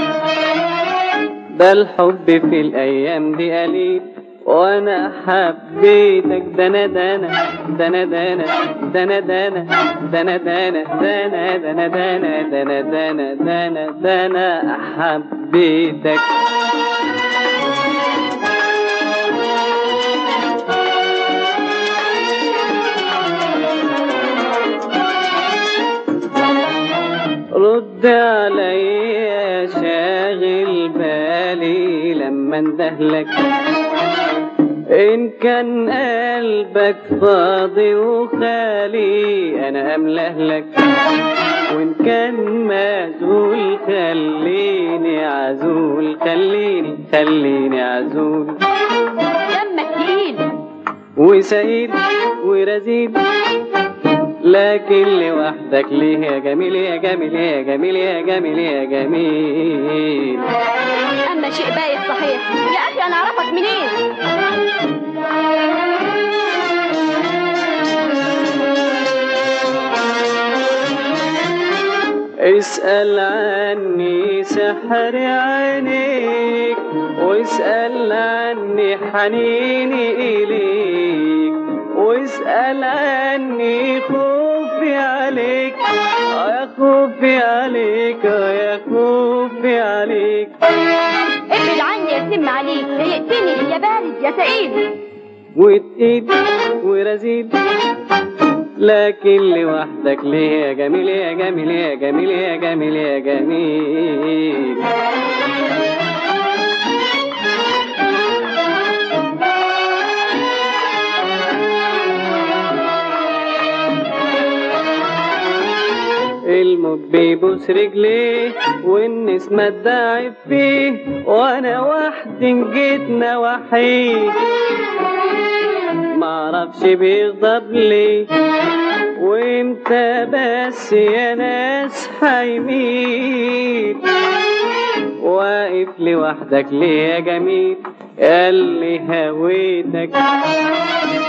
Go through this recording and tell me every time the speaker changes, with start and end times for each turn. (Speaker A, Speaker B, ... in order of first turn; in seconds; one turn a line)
Speaker A: 1.5-16.4
Speaker A: 27.5-33.7
Speaker A: 34.9-48.6
Speaker B: 49.3-50.5
Speaker A: 51.2-53.3
Speaker A: 54.3-60.5
Speaker B: 61.0-64.0
Speaker A: 72.4-90.7
Speaker B: 91.5-95.0
Speaker A: 95.5-97.7
Speaker A: 98.8-104.9
Speaker A: 116.4-124.5
Speaker A: 126.0-128.5
Speaker A: 129.2-134.3
Speaker A: 135.0-140.5